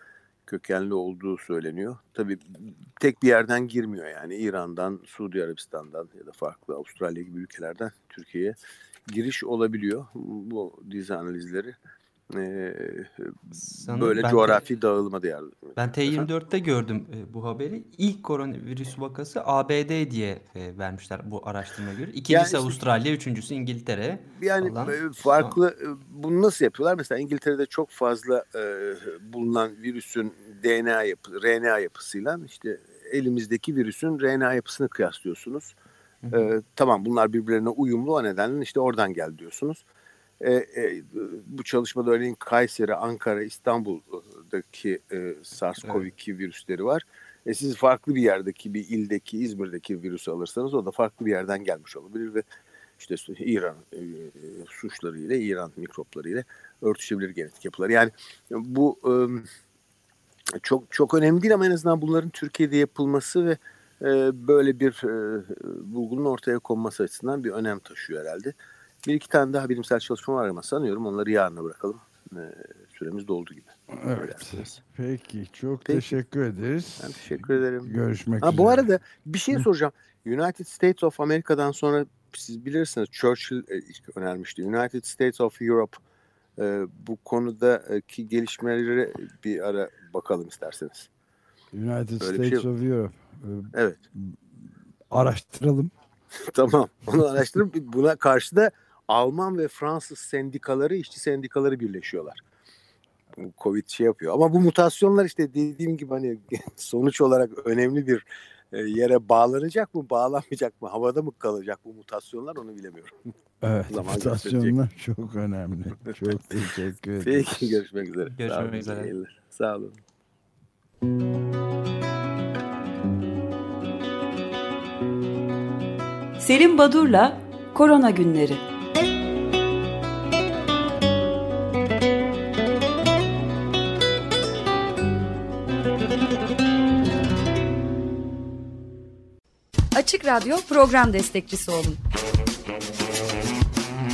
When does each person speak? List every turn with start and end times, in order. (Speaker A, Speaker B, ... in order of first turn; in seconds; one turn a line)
Speaker A: 0.5-8.6
Speaker A: 9.1-11.8
Speaker A: 12.3-16.3
Speaker B: 13.5-14.7
Speaker B: 15.8-25.6
Speaker A: 22.3-22.8
Speaker A: 24.3-35.8
Speaker B: 36.2-36.5
Speaker A: 36.3-39.8
Speaker A: 40.4-52.4
Speaker B: 45.8-46.1
Speaker A: 53.0-59.5
Speaker A: 60.6-74.8
Speaker C: 73.9-78.9
Speaker A: 75.8-76.1
Speaker A: 77.0-86.0
Speaker A: 86.6-91.1
Speaker C: 91.7-94.4
Speaker A: 92.2-92.7
Speaker A: 93.7-94.0
Speaker C: 95.1-95.9
Speaker A: 96.5-102.4
Speaker A: 103.4-113.2
Speaker C: 113.6-117.8
Speaker A: 113.9-114.8
Speaker A: 117.2-120.0
Speaker B: 118.2-119.1
Speaker D: 126.4-128.6
Speaker E: 139.9-142.0